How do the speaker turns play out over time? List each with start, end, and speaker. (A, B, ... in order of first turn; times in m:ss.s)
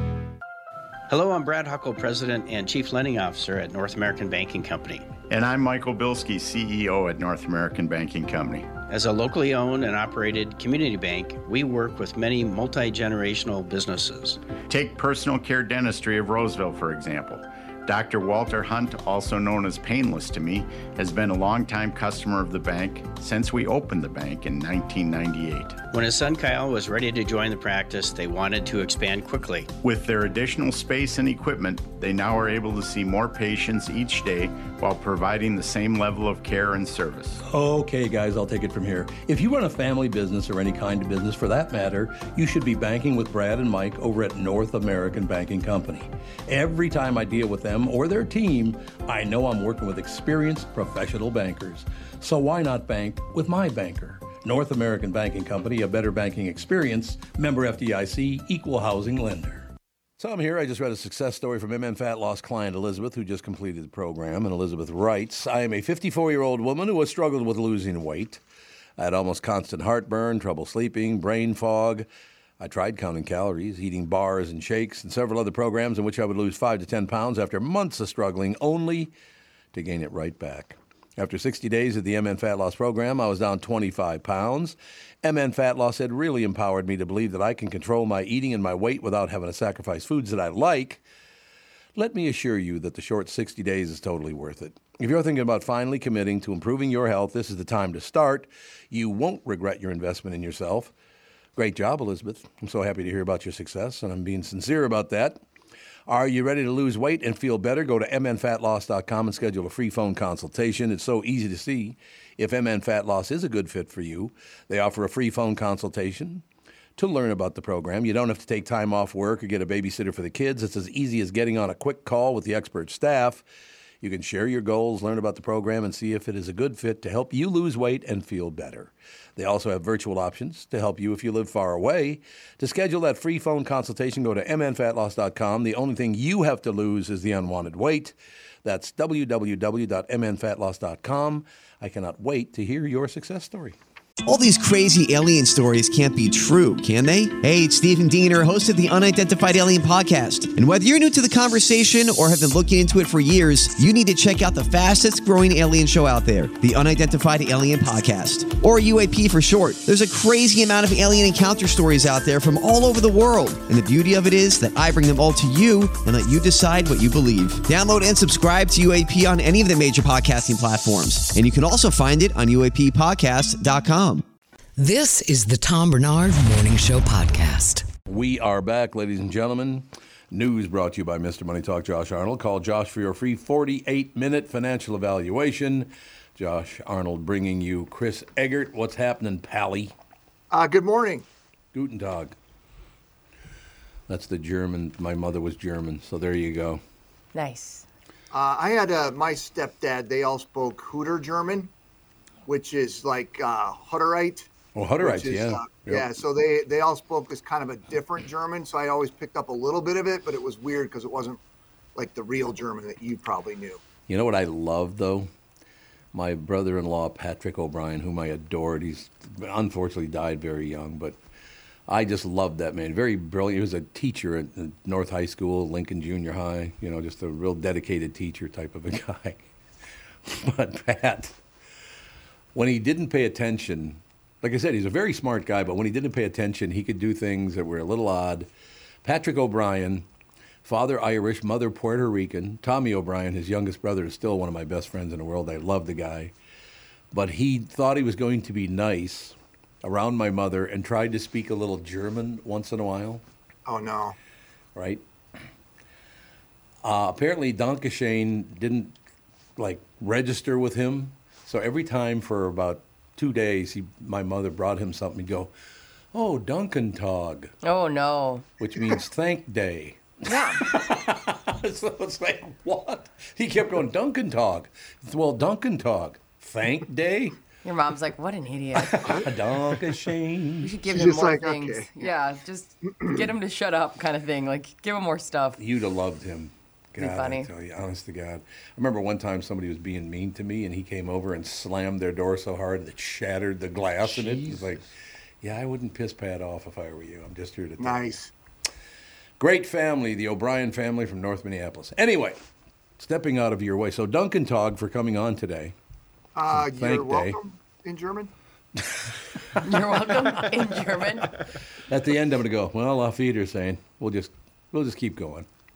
0:01.1-0:05.1 A
0:05.3-0:08.8 B
0:08.8-0:14.4 A
0:14.7-0:25.8 B
0:25.9-0:29.7 A
0:29.8-0:37.4 B
0:37.4-1:08.4 C
1:09.0-1:12.1 C
1:12.6-1:19.1 C
1:19.7-1:31.0 C
1:32.0-1:40.9 C
1:41.6-1:45.4 C
1:46.1-1:56.4 C
1:57.0-2:03.4 C
2:04.0-2:23.8 C
2:24.2-2:54.2 D
2:54.8-2:57.9 E
2:58.1-3:09.9 C
3:10.5-3:11.2 F
3:11.7-3:12.3 C
3:14.1-3:16.8 C
3:17.3-3:17.8 G
3:18.3-3:21.7 F
3:22.4-3:31.4 F
3:24.7-3:26.1 C
3:31.9-3:33.8 F
3:34.1-3:35.3 C
3:36.1-3:41.2 C
3:41.9-3:49.5 C
3:50.2-3:51.3 C
3:52.5-3:58.5 C
3:59.0-4:00.0 C
4:00.6-4:06.3 C
4:07.1-4:13.2 C
4:13.6-4:14.2 F
4:14.7-4:15.0 C
4:16.8-4:18.9 C
4:19.6-4:25.5 C
4:26.1-4:27.5 C
4:27.6-4:28.4 G
4:28.6-4:37.4 C
4:30.2-4:30.6 G
4:37.6-4:39.2 G
4:38.8-4:40.7 C
4:40.6-4:45.6 G
4:40.9-4:42.1 F
4:42.9-4:43.3 F
4:45.6-4:54.9 C
4:47.0-4:47.5 G
4:54.1-4:54.6 F
4:55.4-4:58.2 C
4:57.8-4:58.3 F
4:59.4-5:02.4 C
5:03.0-5:05.7 C
5:06.3-5:08.3 F
5:06.5-5:07.4 C
5:09.6-5:11.3 G
5:11.9-5:15.4 C